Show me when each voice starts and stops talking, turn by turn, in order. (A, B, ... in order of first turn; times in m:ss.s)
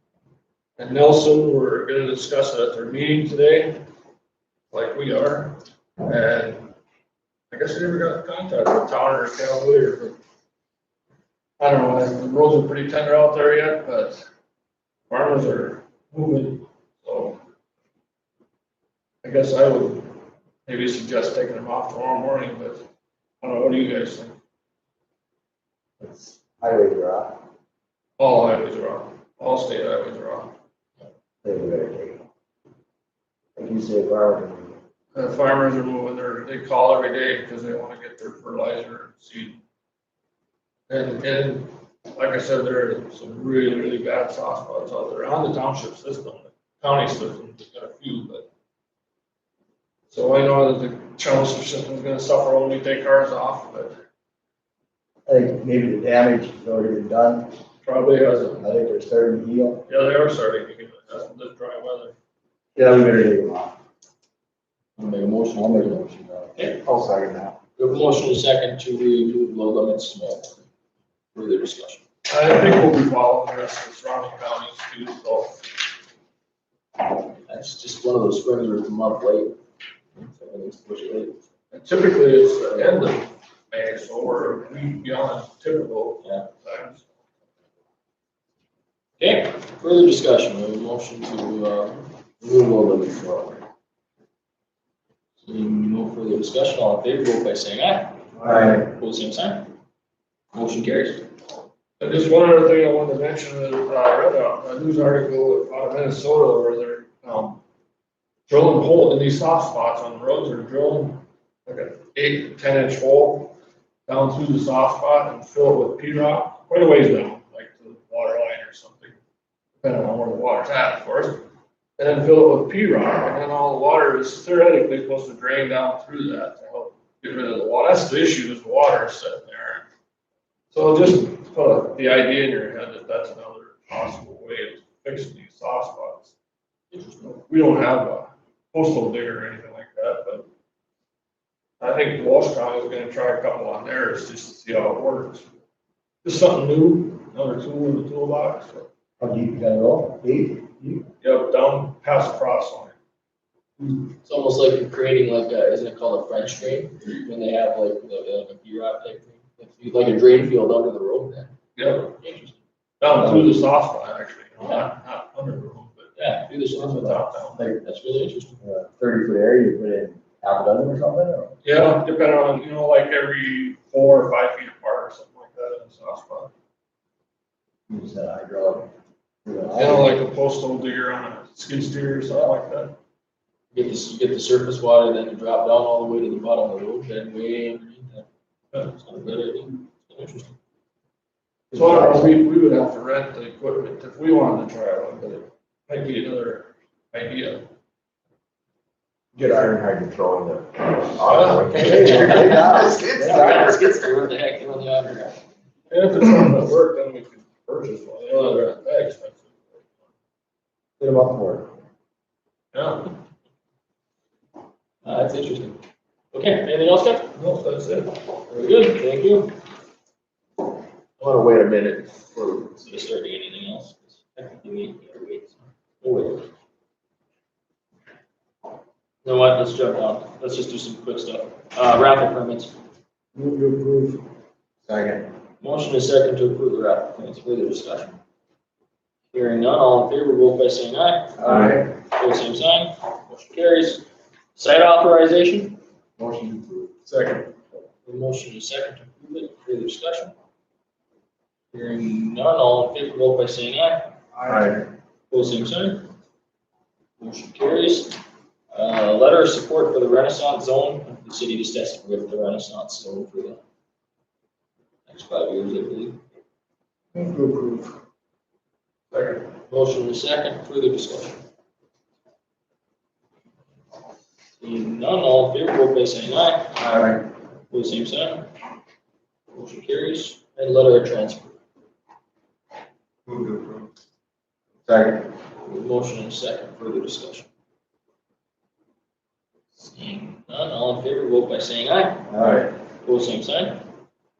0:00.8-0:03.8 A
0:04.7-0:06.7 A
0:07.5-0:10.2 A
0:11.6-0:14.3 A
0:15.1-0:17.4 A
0:19.2-0:22.8 A
0:23.4-0:24.4 A
0:26.0-0:27.4 B
0:28.2-0:30.5 A
0:31.4-0:32.2 B
0:33.6-0:34.7 B
0:35.1-0:39.6 A
0:40.9-0:48.5 A
0:50.1-0:54.0 A
0:55.2-0:57.5 B
0:57.8-0:58.7 A
0:58.6-0:59.8 B
0:59.8-1:02.1 A
1:02.7-1:03.7 B
1:05.0-1:06.0 C
1:05.6-1:07.6 B
1:06.6-1:06.8 C
1:07.8-1:10.6 C
1:11.3-1:12.0 C
1:12.3-1:15.7 A
1:17.5-1:19.6 C
1:20.1-1:21.4 C
1:21.7-1:27.0 A
1:29.2-1:33.6 C
1:35.4-1:39.7 C
1:38.4-1:38.8 B
1:40.5-1:41.2 C
1:42.0-1:47.6 A
1:48.5-1:53.6 A
1:54.1-1:59.2 A
1:59.8-2:01.4 A
2:02.0-2:09.8 A
2:10.7-2:16.3 A
2:16.9-2:17.4 C
2:17.4-2:20.5 A
2:21.8-2:25.5 A
2:26.2-2:28.9 A
2:29.2-2:31.0 B
2:31.2-2:33.0 A
2:34.2-2:41.5 C
2:41.8-2:42.1 A
2:42.2-2:42.6 C
2:43.0-2:47.7 A
2:46.2-2:48.6 C
2:48.6-2:51.6 B
2:51.6-2:56.5 A
2:57.9-2:58.9 B
2:59.4-3:00.1 B
2:59.7-3:03.0 A
3:03.7-3:08.2 C
3:08.9-3:10.5 C
3:11.7-3:12.3 B
3:11.7-3:17.6 A
3:19.3-3:23.6 B
3:21.2-3:22.4 A
3:21.8-3:25.4 C
3:21.8-3:23.8 D
3:25.9-3:29.9 A
3:31.0-3:31.7 B
3:32.7-3:33.1 A
3:35.0-3:35.8 C
3:36.3-3:37.3 C
3:37.3-3:38.2 A
3:38.5-3:39.5 C
3:41.2-3:46.5 C
3:49.2-3:52.7 C
3:53.4-3:54.1 B
3:54.9-3:55.3 B
3:55.6-3:58.2 C
3:59.3-4:05.8 C
4:01.4-4:01.8 B
4:06.2-4:06.9 B
4:07.1-4:07.4 A
4:08.0-4:10.3 C
4:11.7-4:14.1 C
4:14.4-4:14.8 B
4:14.5-4:14.7 D
4:15.3-4:16.1 C
4:17.2-4:18.2 C
4:18.7-4:23.6 C
4:25.1-4:26.2 C
4:27.2-4:27.9 B
4:29.1-4:29.4 A
4:29.7-4:31.4 C
4:34.6-4:36.8 C
4:36.8-4:37.2 B
4:37.7-4:38.5 C
4:39.5-4:41.6 C
4:43.3-4:43.7 D
4:44.9-4:45.2 B
4:45.6-4:47.5 C
4:49.8-4:53.8 C
4:52.3-4:52.7 B